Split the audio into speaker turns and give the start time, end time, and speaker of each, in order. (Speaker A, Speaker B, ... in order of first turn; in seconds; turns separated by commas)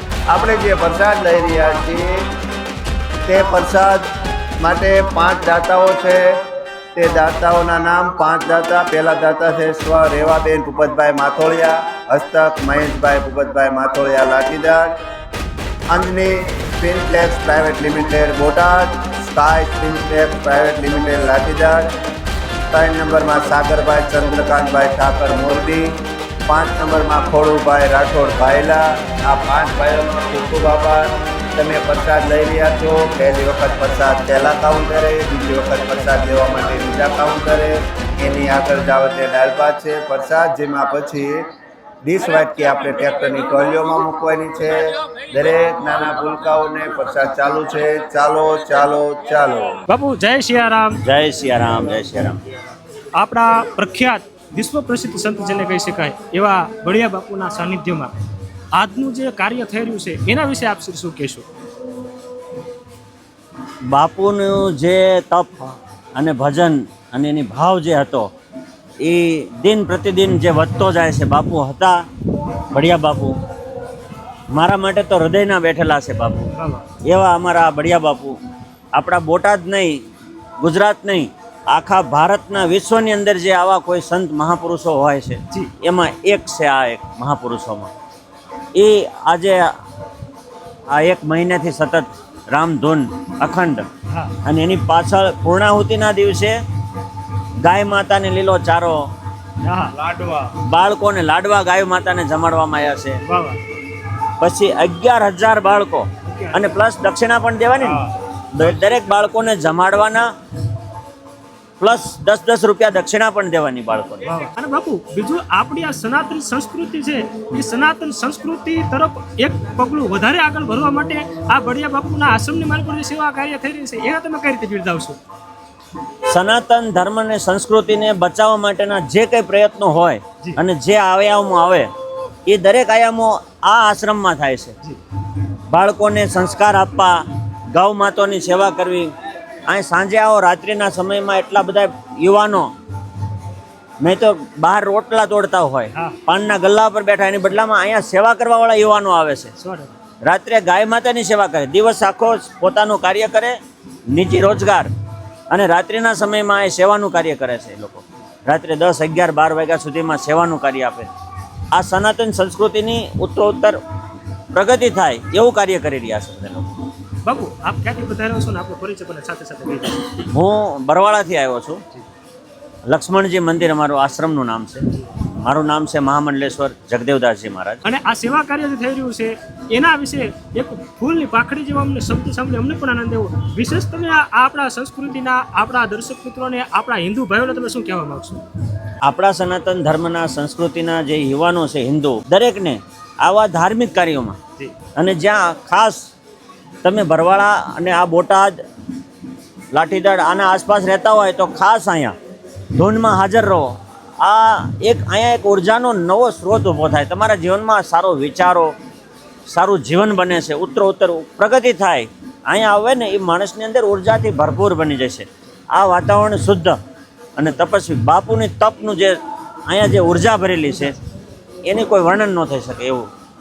Speaker A: 0.3-2.2, Speaker A: 3.3-4.0, Speaker A: 4.6-6.3, Speaker A: 6.9-14.9, Speaker A: 15.9-21.9, Speaker A: 22.7-25.9, Speaker A: 26.5-41.5, Speaker A: 42.0-49.8, Speaker B: 49.9-51.0, Speaker C: 51.0-52.4, Speaker B: 53.2-58.1, Speaker B: 58.7-61.5, Speaker C: 63.9-68.3, Speaker C: 69.0-72.0, Speaker C: 72.7-73.4, Speaker C: 74.5-76.5, Speaker B: 76.5-76.8, Speaker C: 77.0-78.3, Speaker C: 78.9-80.0, Speaker C: 80.6-87.9, Speaker C: 88.7-89.8, Speaker C: 90.9-93.9, Speaker B: 94.1-94.3, Speaker C: 94.4-96.6, Speaker C: 97.6-99.0, Speaker B: 99.6-100.0, Speaker C: 100.6-103.2, Speaker B: 103.2-103.6, Speaker C: 104.4-110.3, Speaker B: 106.2-106.7, Speaker C: 111.8-114.3, Speaker B: 114.2-125.2, Speaker C: 126.3-131.9, Speaker C: 132.4-134.7, Speaker C: 135.7-139.1, Speaker C: 139.7-142.7, Speaker C: 144.0-149.5, Speaker B: 149.6-149.9, Speaker C: 150.2-153.6, Speaker C: 154.1-154.9, Speaker C: 155.5-161.1, Speaker C: 161.7-163.8, Speaker C: 164.5-166.7, Speaker B: 167.2-170.0, Speaker C: 170.2-171.8, Speaker C: 172.9-177.8, Speaker B: 177.8-188.4, Speaker C: 189.0-194.4, Speaker C: 194.9-196.1, Speaker C: 196.8-198.6, Speaker C: 199.7-202.1, Speaker C: 202.7-208.7, Speaker C: 209.5-216.8, Speaker C: 217.3-220.9, Speaker C: 221.6-223.1